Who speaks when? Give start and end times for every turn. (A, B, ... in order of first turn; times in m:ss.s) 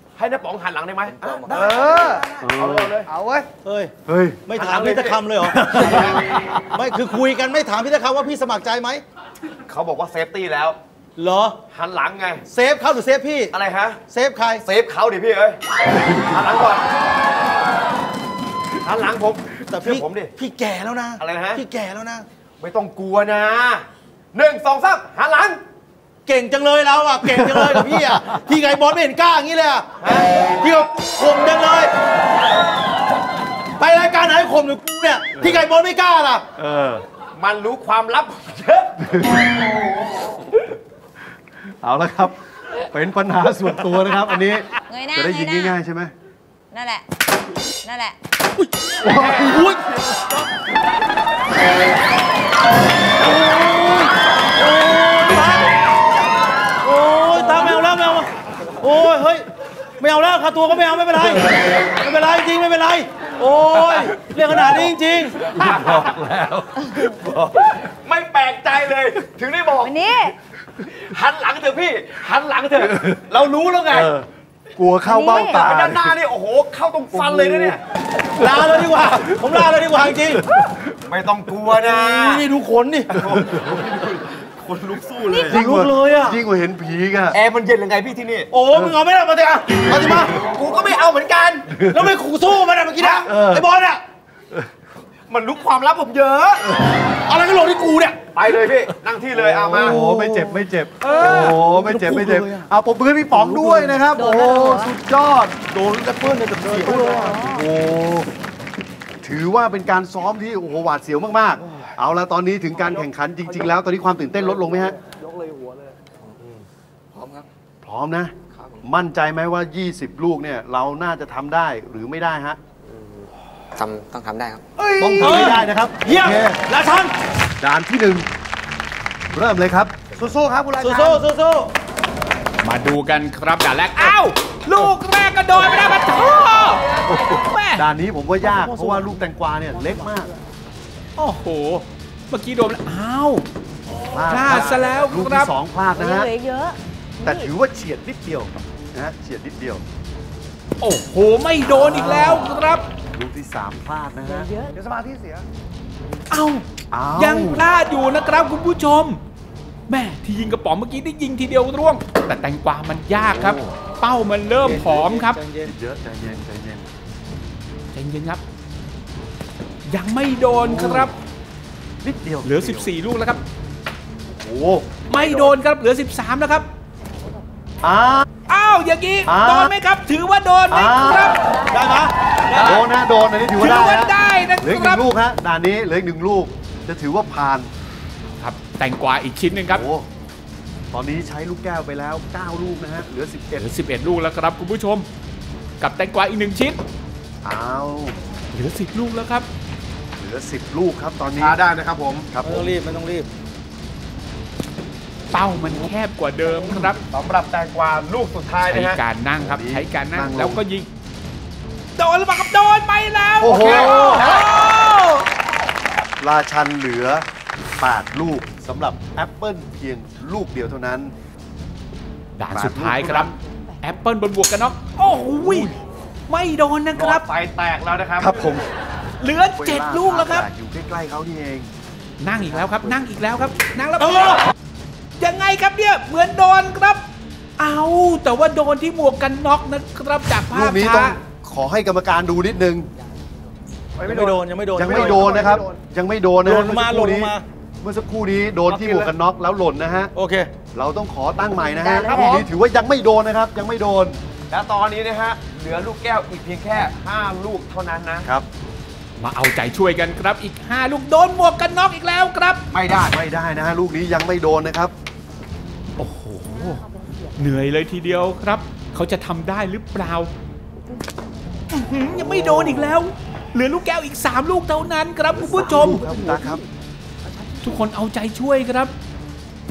0:00.2-0:03.1 A
0:01.0-0:02.2 B
0:01.4-0:02.3 C
0:01.9-0:02.1 D
0:02.4-0:03.0 E
0:03.1-0:03.5 C
0:03.6-0:03.9 D
0:04.1-0:04.4 E
0:04.5-0:09.0 D
0:04.5-0:06.2 A
0:05.5-0:06.6 E
0:09.7-0:10.8 A
0:11.2-0:11.6 D
0:11.7-0:12.4 A
0:12.5-0:13.5 D
0:13.5-0:14.0 A
0:14.1-0:14.6 D
0:14.6-0:15.6 A
0:16.1-0:16.9 A
0:18.8-0:20.3 A
0:19.7-0:22.2 D
0:21.2-0:21.6 A
0:22.6-0:25.6 A
0:26.3-0:29.9 D
0:30.0-0:30.3 A
0:30.6-0:31.9 D
0:33.8-0:36.4 D
0:36.6-0:37.0 E
0:37.4-0:39.0 A
0:39.0-0:39.3 E
0:41.8-0:42.4 E
0:42.9-0:46.1 E
0:44.9-0:45.8 F
0:46.7-0:47.1 F
0:47.8-0:48.2 F
0:48.9-0:50.3 D
0:49.0-0:50.0 E
0:53.2-0:55.7 D
0:56.8-0:59.5 D
1:00.0-1:05.4 D
1:04.5-1:04.9 E
1:05.5-1:07.8 E
1:05.5-1:06.1 A
1:07.8-1:10.0 A
1:09.8-1:10.4 F
1:10.9-1:14.2 A
1:12.9-1:13.2 E
1:13.9-1:16.2 E
1:15.0-1:15.6 F
1:15.5-1:17.8 A
1:17.1-1:17.8 E
1:18.4-1:20.4 D
1:21.1-1:22.4 A
1:21.7-1:23.2 D
1:23.1-1:25.6 A
1:23.3-1:23.7 E
1:25.3-1:25.6 F
1:25.5-1:27.4 E
1:25.5-1:26.4 D
1:27.3-1:28.5 A
1:28.5-1:30.3 D
1:30.2-1:31.8 A
1:31.8-1:34.0 D
1:33.1-1:33.7 E
1:35.3-1:36.7 A
1:37.3-1:38.2 D
1:38.4-1:40.0 A
1:39.6-1:45.6 E
1:39.7-1:42.7 D
1:43.3-1:44.0 D
1:44.1-1:44.9 F
1:45.7-1:47.4 D
1:46.8-1:47.5 C
1:46.9-1:47.7 F
1:47.4-1:48.3 E
1:49.2-1:55.0 E
1:54.4-1:56.0 C
1:57.1-1:57.4 B
1:57.8-2:02.6 E
1:58.5-1:58.8 B
2:03.8-2:04.6 B
2:04.8-2:05.6 C
2:05.0-2:06.6 E
2:05.2-2:07.1 D
2:07.6-2:08.3 E
2:09.3-2:10.0 E
2:10.2-2:11.2 C
2:10.8-2:11.7 D
2:12.6-2:17.8 G
2:17.1-2:20.3 E
2:18.4-2:19.2 D
2:19.7-2:20.3 D
2:21.2-2:23.4 G
2:24.1-2:26.3 E
2:24.3-2:25.5 G
2:24.3-2:24.9 A
2:26.0-2:27.5 F
2:27.2-2:29.8 E
2:30.8-2:32.8 G
2:31.6-2:32.5 E
2:33.1-2:34.5 E
2:34.4-2:34.7 F
2:34.7-2:35.5 C
2:36.3-2:36.6 G
2:36.9-2:37.7 E
2:37.2-2:39.2 G
2:39.9-2:45.4 G
2:43.3-2:43.6 E
2:44.6-2:45.7 D
2:45.6-2:46.9 E
2:47.9-2:48.4 G
2:49.9-2:51.2 G
2:50.5-2:51.1 E
2:52.0-2:52.9 E
2:52.4-2:53.4 G
2:54.4-2:55.5 E
2:55.1-2:56.7 G
2:57.8-2:58.3 E
2:58.5-3:01.4 G
2:59.3-2:59.7 E
3:00.7-3:01.4 E
3:01.7-3:02.8 D
3:02.6-3:07.7 E
3:03.6-3:05.0 G
3:08.4-3:09.9 G
3:09.7-3:10.1 E
3:10.9-3:13.8 E
3:13.6-3:15.1 G
3:15.8-3:16.8 G
3:17.4-3:18.2 E
3:18.5-3:19.5 G
3:20.2-3:21.6 E
3:21.4-3:22.3 A
3:22.3-3:22.7 E
3:22.4-3:23.3 D
3:25.3-3:27.0 G
3:27.1-3:29.0 A
3:28.6-3:30.9 G
3:29.4-3:30.6 E
3:32.0-3:35.3 G
3:33.4-3:34.2 E
3:33.4-3:34.5 A
3:36.2-3:37.2 E
3:37.8-3:41.1 E
3:42.4-3:45.8 G
3:42.5-3:43.3 E
3:46.3-3:47.2 G
3:46.9-3:48.4 A
3:48.2-3:48.7 E
3:49.2-3:50.5 G
3:49.5-3:51.7 E
3:52.2-3:54.4 G
3:52.5-3:52.9 E
3:55.2-3:57.0 G
3:57.6-4:01.2 G
4:00.5-4:02.9 E
4:04.0-4:05.8 C
4:04.0-4:05.4 D
4:04.7-4:10.1 E
4:06.4-4:07.4 D
4:08.7-4:09.0 C
4:10.2-4:10.5 D
4:10.7-4:14.2 E
4:11.6-4:12.5 F
4:12.0-4:12.5 C
4:14.5-4:18.3 A
4:19.2-4:22.6 G
4:22.7-4:23.2 A
4:23.1-4:24.9 E
4:26.0-4:26.8 G
4:26.4-4:27.4 F
4:27.4-4:30.3 G
4:31.7-4:36.0 G
4:32.1-4:33.0 E
4:35.3-4:36.6 E
4:35.6-4:36.6 D
4:37.6-4:38.9 G